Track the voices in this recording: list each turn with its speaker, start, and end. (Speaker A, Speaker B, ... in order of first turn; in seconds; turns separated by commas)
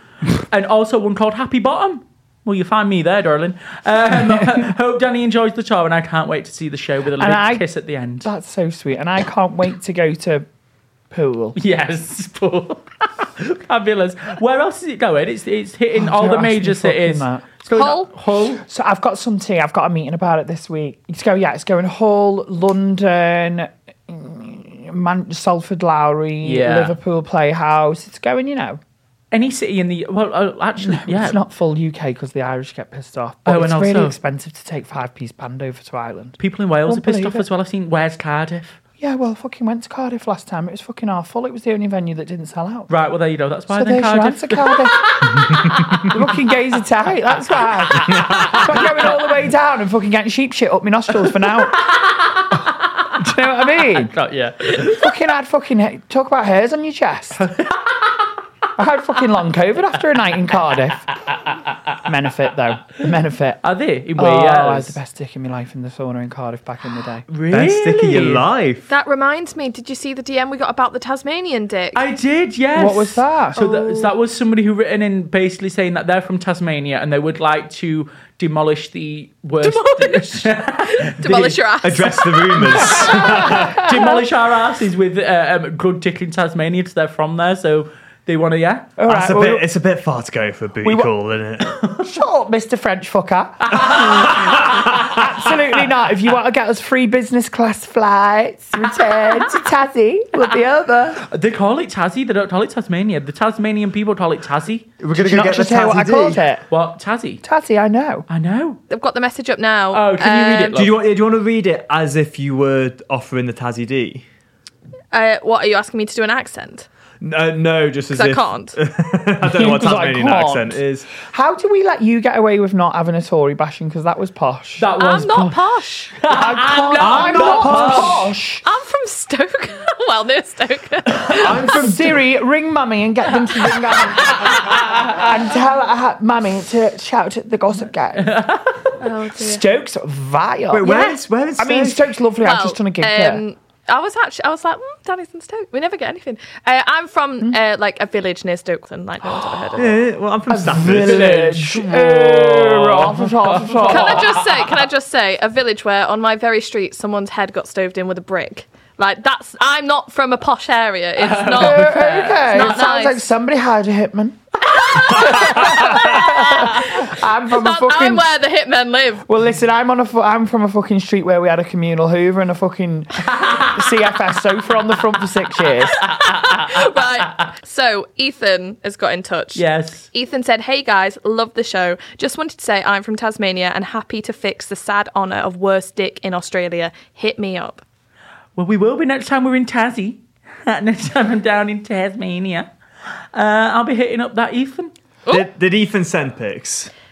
Speaker A: 0.4-8.3, Speaker B: 4.1-4.6, Speaker B: 7.2-7.7, Speaker B: 8.2-10.4, Speaker B: 11.1-11.6, Speaker A: 11.6-18.6, Speaker B: 15.9-28.8, Speaker A: 26.4-26.9, Speaker A: 29.3-31.4, Speaker B: 30.8-37.5, Speaker A: 33.5-34.2, Speaker A: 36.4-38.8, Speaker B: 39.0-42.9, Speaker A: 42.9-46.4, Speaker B: 43.7-51.8, Speaker A: 47.6-49.2, Speaker A: 51.4-53.1, Speaker B: 53.1-54.1, Speaker A: 53.8-55.1, Speaker B: 54.7-57.5, Speaker A: 57.6-58.0, Speaker B: 58.8-61.1, Speaker B: 62.0-63.6, Speaker A: 63.6-65.0, Speaker B: 64.2-67.2, Speaker A: 67.3-68.4, Speaker C: 67.5-68.9, Speaker D: 68.9-72.0, Speaker A: 71.9-81.3, Speaker B: 72.7-73.6, Speaker D: 73.6-74.1, Speaker D: 79.6-82.8, Speaker C: 81.2-83.9, Speaker B: 82.6-84.2, Speaker A: 82.8-88.9, Speaker B: 89.0-89.7, Speaker C: 89.1-91.8, Speaker B: 90.8-91.1, Speaker B: 92.0-101.2, Speaker A: 93.8-94.3, Speaker C: 93.8-95.2, Speaker A: 101.3-104.9, Speaker C: 105.0-106.4, Speaker B: 105.1-106.6, Speaker A: 106.7-107.4, Speaker B: 107.4-108.3, Speaker A: 108.3-108.8, Speaker D: 108.9-110.8, Speaker A: 109.9-110.9, Speaker C: 110.7-114.2, Speaker D: 115.1-116.8, Speaker C: 117.2-121.1, Speaker D: 118.1-118.8, Speaker B: 119.4-124.9, Speaker A: 124.8-125.6, Speaker D: 125.0-126.1, Speaker A: 126.1-128.2, Speaker B: 126.3-128.6, Speaker C: 127.0-128.3, Speaker D: 128.6-131.8, Speaker C: 131.4-132.2, Speaker B: 131.4-138.4, Speaker A: 134.5-135.2, Speaker A: 138.2-138.9, Speaker D: 139.0-139.6, Speaker B: 139.3-143.4, Speaker C: 140.7-142.1, Speaker D: 140.8-141.2, Speaker D: 142.4-150.0, Speaker C: 149.8-151.5, Speaker B: 150.5-154.4, Speaker A: 150.8-154.7, Speaker D: 153.9-163.3, Speaker A: 161.2-162.7, Speaker B: 161.5-164.4, Speaker D: 164.8-169.3, Speaker B: 164.9-168.2, Speaker B: 169.2-176.0, Speaker A: 173.2-173.9, Speaker A: 176.1-177.0, Speaker D: 176.5-187.8, Speaker A: 179.5-180.1, Speaker A: 188.6-192.7, Speaker A: 193.3-194.9, Speaker C: 195.3-196.9